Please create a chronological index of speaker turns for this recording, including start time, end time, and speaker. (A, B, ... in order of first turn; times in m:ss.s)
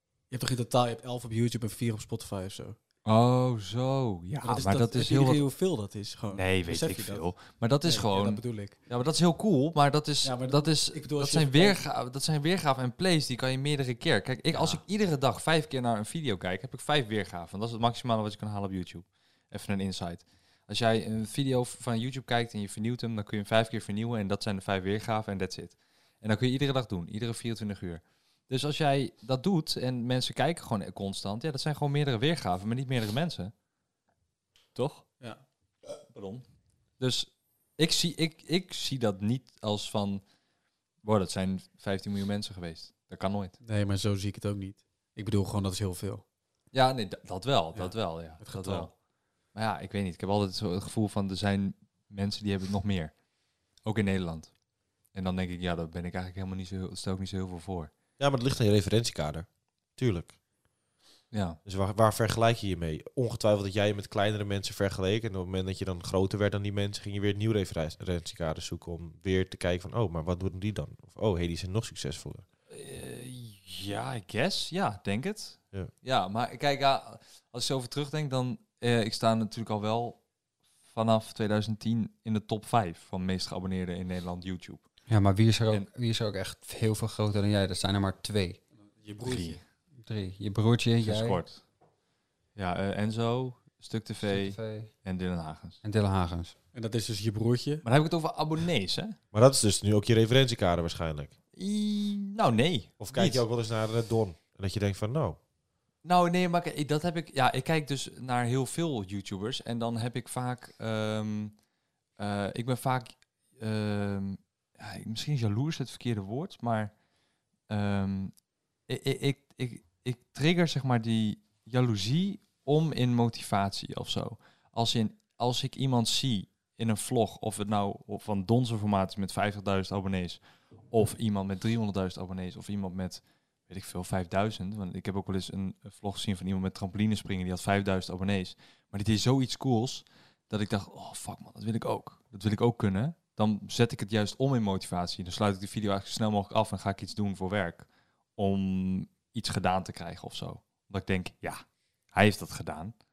0:00.3-0:02.8 A
0:03.0-0:05.4 B
0:04.4-0:08.8 A
0:06.3-0:33.5 B
0:10.2-0:11.8 A
0:14.5-0:14.8 A
0:34.8-0:35.1 B
0:36.0-0:36.4 B
0:37.0-0:40.2 B
0:41.0-0:43.6 B
0:43.6-0:46.2 A
0:46.7-0:48.9 B
0:47.8-0:48.9 A
0:49.5-0:53.2 B
0:53.8-0:54.5 B
0:55.1-0:57.9 B
0:58.2-1:00.4 C
1:01.3-1:01.6 B
1:01.6-1:12.4 C
1:12.7-1:20.2 B
1:20.9-1:24.8 B
1:25.1-1:28.6 D
1:29.0-1:29.6 A
1:29.2-1:29.6 B
1:30.0-1:31.4 D
1:31.0-1:31.6 B
1:32.6-1:35.8 B
1:34.3-1:34.9 D
1:35.8-1:36.6 D
1:36.7-1:37.8 A
1:37.8-1:39.2 B
1:39.3-1:41.3 C
1:41.6-1:43.4 B
1:43.0-1:45.4 C
1:46.0-1:51.6 B
1:52.2-1:57.0 B
1:57.7-2:32.9 B